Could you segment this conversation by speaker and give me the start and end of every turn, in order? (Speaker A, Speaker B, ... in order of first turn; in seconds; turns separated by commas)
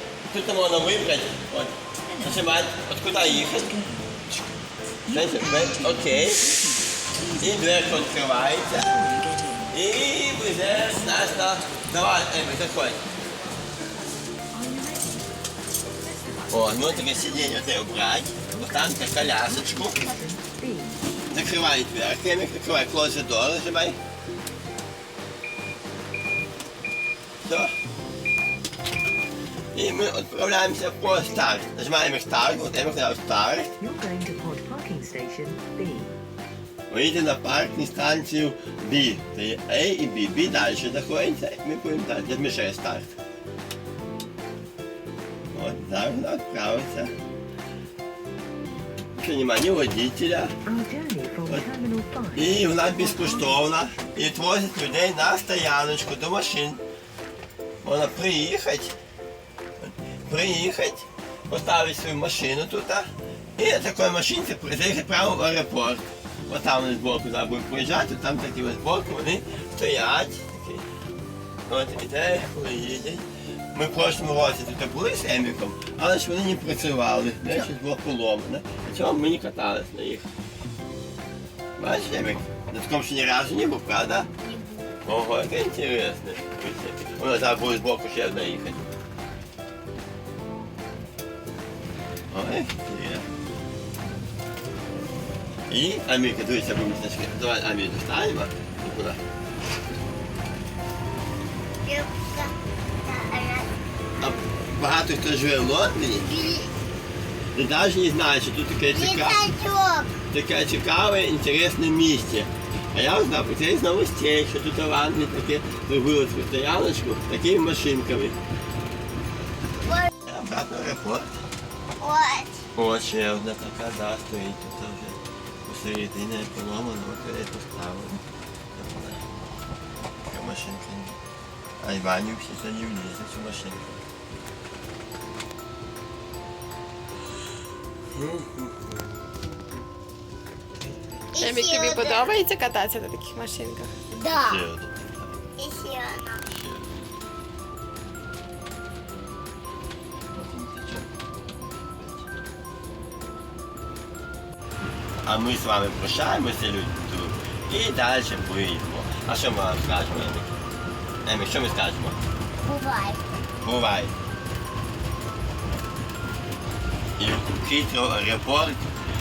Speaker A: 0.3-3.8, Speaker B: 2.1-2.4, Speaker B: 3.1-4.5, Speaker B: 5.0-9.7, Speaker A: 5.1-6.5, Speaker A: 7.4-9.0, Speaker A: 9.7-13.0, Speaker B: 10.7-11.6, Speaker B: 14.5-15.4, Speaker B: 16.0-21.0, Speaker A: 16.5-20.1, Speaker A: 21.3-24.0, Speaker A: 27.5-27.7, Speaker A: 29.7-33.8, Speaker B: 31.2-31.6, Speaker B: 33.8-36.2, Speaker A: 36.9-43.1, Speaker A: 45.5-47.1, Speaker A: 49.2-50.6, Speaker B: 50.7-53.7, Speaker A: 52.3-56.8, Speaker A: 57.8-59.0, Speaker A: 59.8-70.8, Speaker A: 71.7-80.3, Speaker A: 81.8-84.3, Speaker C: 84.4-84.9, Speaker A: 85.0-88.9, Speaker A: 92.3-93.3, Speaker A: 95.7-99.2, Speaker C: 101.8-103.8, Speaker A: 104.2-106.5, Speaker C: 106.2-106.7, Speaker A: 107.5-109.4, Speaker C: 108.9-110.2, Speaker A: 110.3-118.4, Speaker C: 119.8-120.1, Speaker A: 120.2-121.3, Speaker C: 122.0-122.6, Speaker A: 122.8-128.2, Speaker A: 128.8-129.3, Speaker A: 130.2-131.2, Speaker A: 131.8-134.0, Speaker A: 138.1-138.9, Speaker C: 141.3-142.4, Speaker D: 141.4-143.9, Speaker C: 144.1-144.6, Speaker A: 144.4-145.4, Speaker C: 145.6-146.4, Speaker A: 146.5-146.9, Speaker A: 150.3-151.1, Speaker A: 151.7-152.3, Speaker A: 155.2-160.6, Speaker A: 161.2-162.2, Speaker C: 162.6-163.3, Speaker A: 163.6-164.1, Speaker A: 167.2-168.8